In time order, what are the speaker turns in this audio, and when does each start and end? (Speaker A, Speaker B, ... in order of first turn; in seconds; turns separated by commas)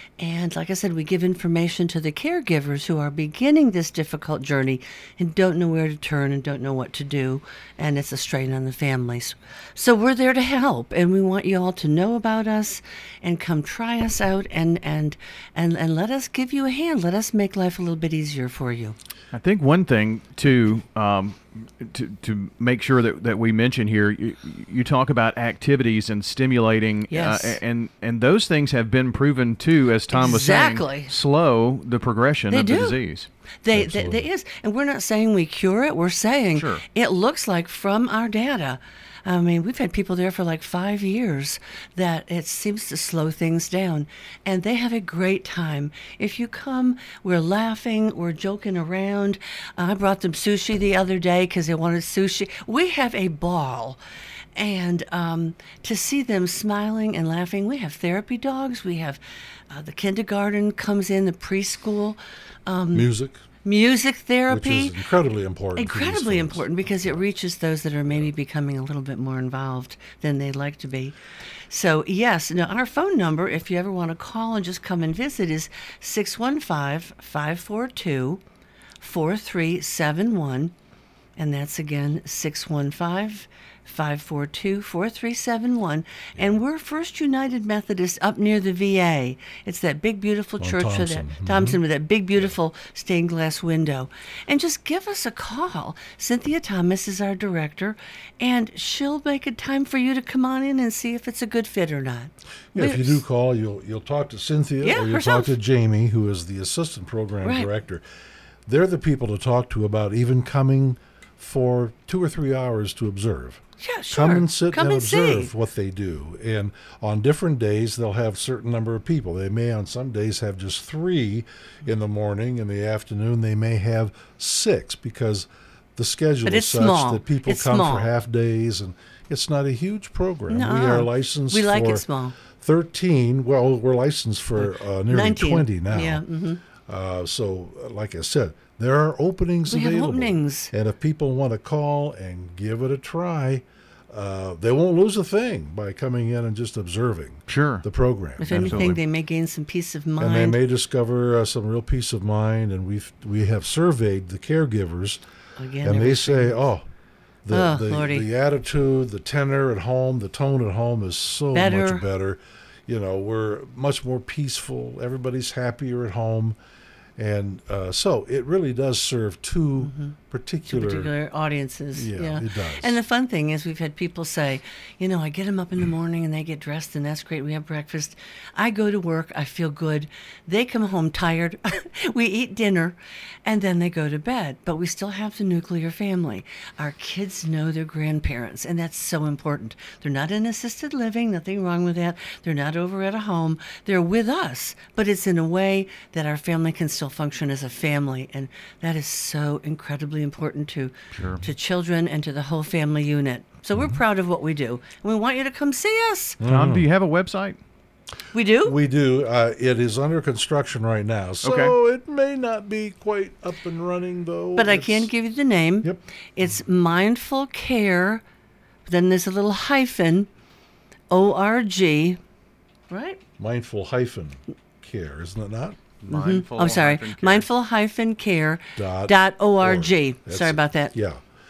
Speaker A: 0.2-19.0, Speaker B: 19.3-33.3, Speaker A: 27.1-27.6, Speaker A: 30.1-31.1, Speaker A: 32.5-33.0, Speaker A: 33.6-54.0, Speaker C: 33.7-34.3, Speaker B: 36.5-36.8, Speaker A: 54.5-63.1, Speaker C: 62.9-63.4, Speaker A: 63.6-65.0, Speaker C: 64.5-67.2, Speaker A: 65.8-71.2, Speaker A: 71.7-78.4, Speaker A: 79.0-80.7, Speaker A: 81.4-103.2, Speaker C: 90.6-91.8, Speaker C: 102.7-108.0, Speaker A: 104.8-105.5, Speaker A: 107.4-107.7, Speaker C: 108.7-136.2, Speaker A: 113.8-115.5, Speaker A: 126.5-128.1, Speaker A: 130.5-132.3, Speaker A: 134.6-136.6, Speaker C: 136.9-149.0, Speaker A: 139.7-140.7, Speaker B: 147.5-147.8, Speaker A: 148.4-150.6, Speaker B: 148.6-148.9, Speaker C: 150.2-155.2, Speaker A: 155.6-156.6, Speaker C: 155.8-156.8, Speaker C: 157.5-166.6, Speaker A: 157.5-158.3, Speaker A: 161.5-162.0, Speaker C: 167.2-171.1, Speaker A: 169.8-170.2, Speaker A: 170.7-206.4, Speaker C: 171.9-173.0, Speaker B: 201.1-201.4, Speaker C: 206.4-206.9, Speaker B: 206.4-207.6, Speaker A: 208.3-208.8, Speaker C: 208.6-215.1, Speaker B: 211.4-211.7, Speaker A: 214.6-218.2, Speaker A: 218.9-220.3, Speaker A: 221.1-222.2, Speaker A: 222.9-223.2, Speaker C: 223.4-225.8, Speaker B: 226.0-227.5, Speaker A: 226.1-231.0, Speaker C: 228.8-231.2